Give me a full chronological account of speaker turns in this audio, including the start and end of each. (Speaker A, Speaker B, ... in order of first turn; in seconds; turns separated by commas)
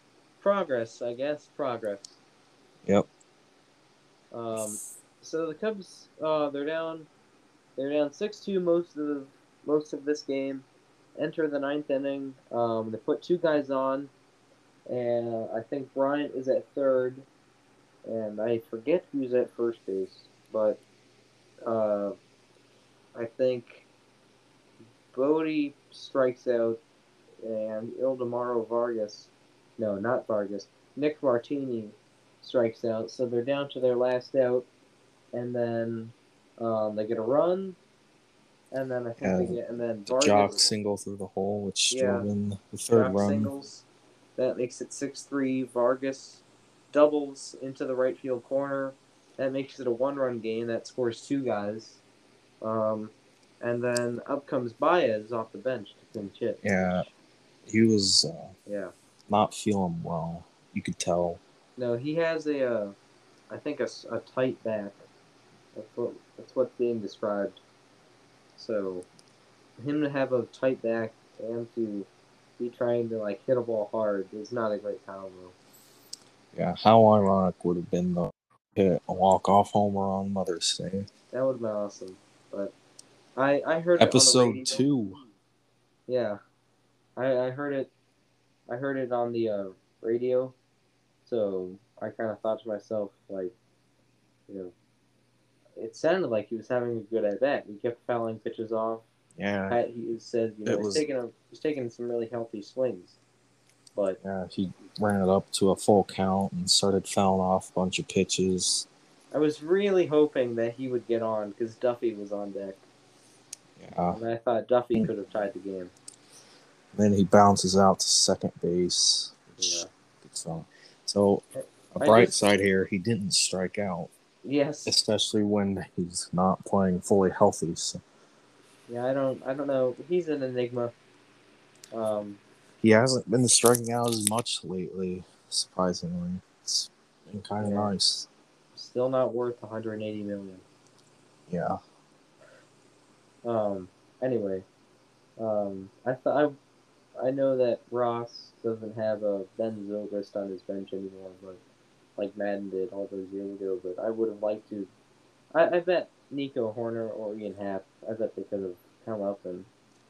Speaker A: 0.4-2.2, Speaker A: 4.3-7.1, Speaker A: 7.8-10.6, Speaker A: 11.2-14.1, Speaker A: 14.9-17.3, Speaker A: 18.0-20.8, Speaker A: 21.6-22.1, Speaker A: 23.1-23.9, Speaker A: 25.1-26.8, Speaker A: 27.4-34.6, Speaker A: 35.3-37.8, Speaker A: 38.7-40.7, Speaker B: 39.2-43.5, Speaker A: 41.9-42.3, Speaker A: 42.9-43.8, Speaker A: 44.4-52.0, Speaker A: 52.6-57.1, Speaker B: 56.6-57.0, Speaker B: 57.6-58.5, Speaker A: 58.6-58.9, Speaker B: 59.3-61.4, Speaker A: 61.8-63.0, Speaker A: 63.5-65.0, Speaker A: 65.7-67.6, Speaker A: 68.5-69.0, Speaker A: 69.8-75.5, Speaker B: 76.5-81.1, Speaker A: 81.3-82.7, Speaker A: 83.3-85.3, Speaker B: 84.0-85.2, Speaker A: 86.1-86.4, Speaker A: 87.2-87.9, Speaker A: 88.7-90.5, Speaker A: 91.2-93.5, Speaker A: 94.5-94.7, Speaker A: 95.8-99.0, Speaker B: 99.3-99.8, Speaker A: 99.7-103.2, Speaker B: 100.7-101.0, Speaker B: 104.2-108.9, Speaker A: 109.3-112.8, Speaker B: 113.8-114.2, Speaker A: 114.1-115.9, Speaker B: 116.9-124.1, Speaker A: 119.6-119.9, Speaker A: 121.5-122.3, Speaker A: 124.4-125.0, Speaker B: 124.8-128.0, Speaker A: 128.9-130.9, Speaker A: 131.9-132.4, Speaker B: 132.8-138.3, Speaker A: 137.6-137.9, Speaker A: 138.7-140.6, Speaker B: 141.5-141.8, Speaker A: 143.4-144.7, Speaker A: 145.4-146.5, Speaker A: 147.2-151.6, Speaker A: 152.2-154.9, Speaker A: 155.5-159.7